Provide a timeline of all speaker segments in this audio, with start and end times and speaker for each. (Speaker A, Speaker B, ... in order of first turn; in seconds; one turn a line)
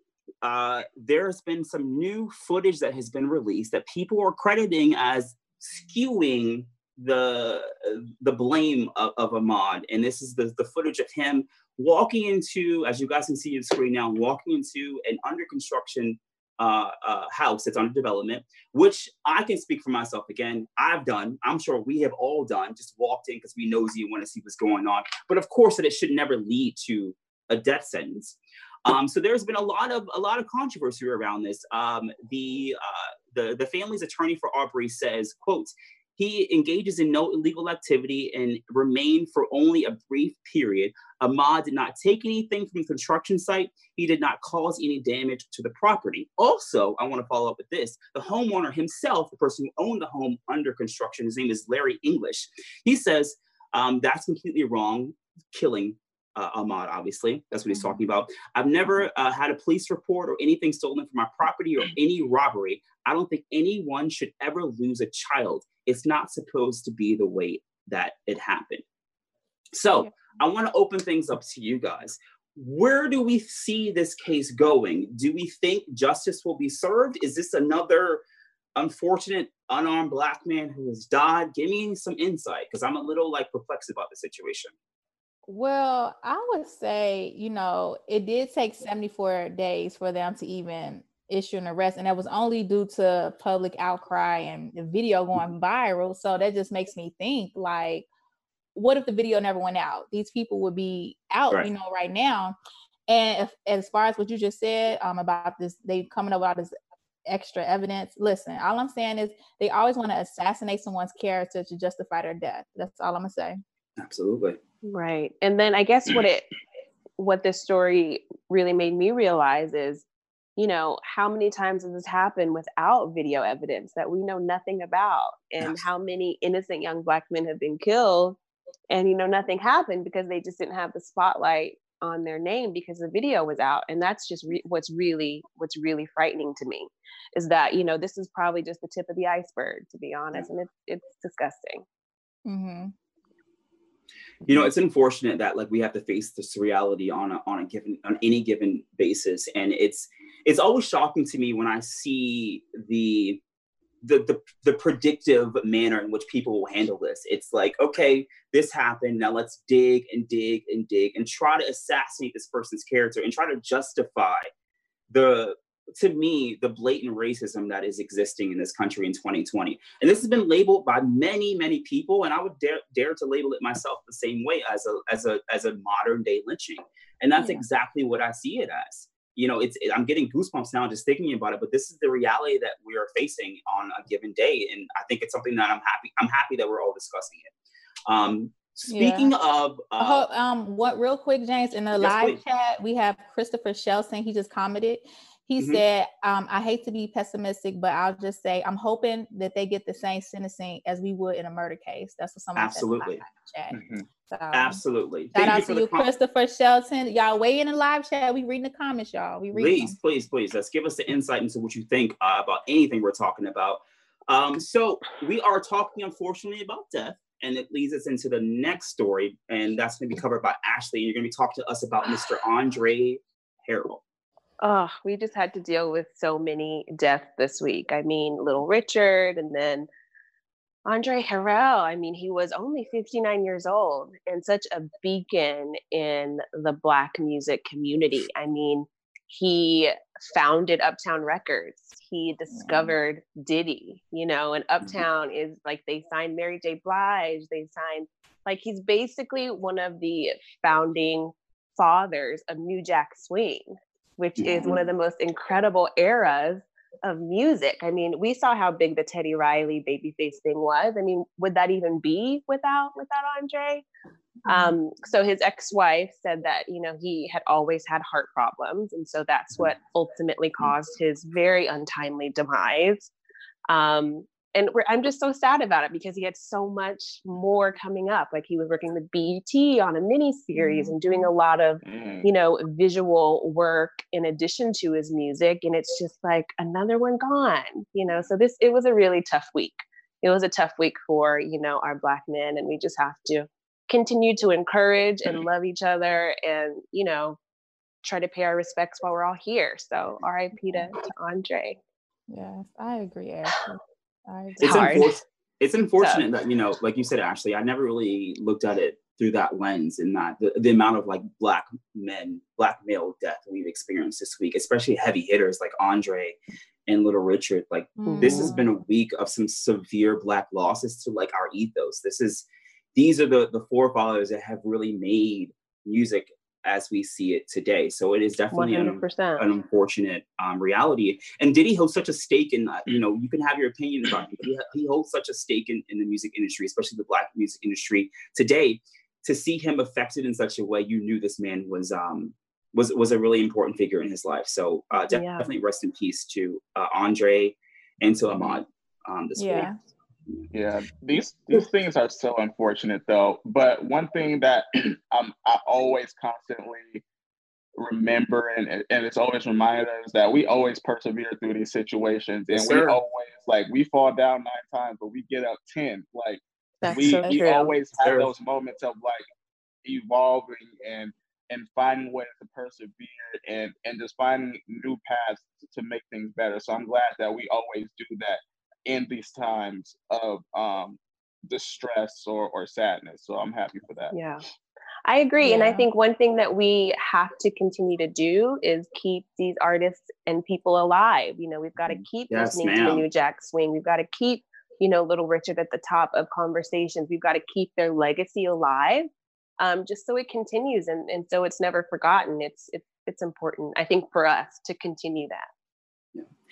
Speaker A: 0.4-68.8
Speaker A: 69.7-78.2
Speaker A: 78.8-84.7
Speaker B: 85.5-98.0
Speaker B: 98.7-102.5
Speaker B: 103.1-106.7
Speaker B: 107.3-113.6
Speaker A: 114.0-114.6
Speaker C: 114.8-116.5
Speaker C: 117.2-120.0
Speaker C: 120.6-128.4
Speaker C: 128.9-141.8
Speaker B: 142.4-142.9
Speaker A: 144.5-153.4
Speaker A: 154.0-164.5
Speaker A: 165.1-187.5
Speaker B: 177.4-177.6
Speaker A: 188.1-190.2
Speaker B: 188.9-189.3
Speaker B: 190.0-204.8
Speaker A: 192.0-192.4
Speaker A: 202.6-203.2
Speaker D: 203.7-204.0
Speaker A: 204.5-206.1
Speaker B: 205.3-210.0
Speaker A: 209.5-224.0
Speaker C: 224.6-229.9
Speaker C: 230.8-263.8
Speaker B: 242.5-242.9
Speaker A: 254.4-254.9
Speaker C: 264.4-273.1
Speaker B: 264.5-264.7
Speaker C: 273.7-297.4
Speaker B: 280.6-281.3
Speaker D: 281.8-282.3
Speaker C: 298.0-301.8
Speaker B: 302.3-305.1
Speaker A: 304.6-349.7
Speaker C: 304.6-305.2
Speaker C: 306.0-306.2
Speaker B: 318.0-318.7
Speaker C: 318.1-318.5
Speaker C: 328.5-329.4
Speaker C: 345.1-345.4
Speaker B: 349.4-349.8
Speaker D: 350.5-357.0
Speaker D: 357.8-369.2
Speaker A: 362.5-363.0
Speaker C: 366.8-367.7
Speaker A: 366.9-368.3
Speaker D: 369.8-384.1
Speaker C: 384.1-384.4
Speaker C: 385.1-399.1
Speaker B: 385.4-385.9
Speaker A: 392.3-393.0
Speaker C: 399.6-405.5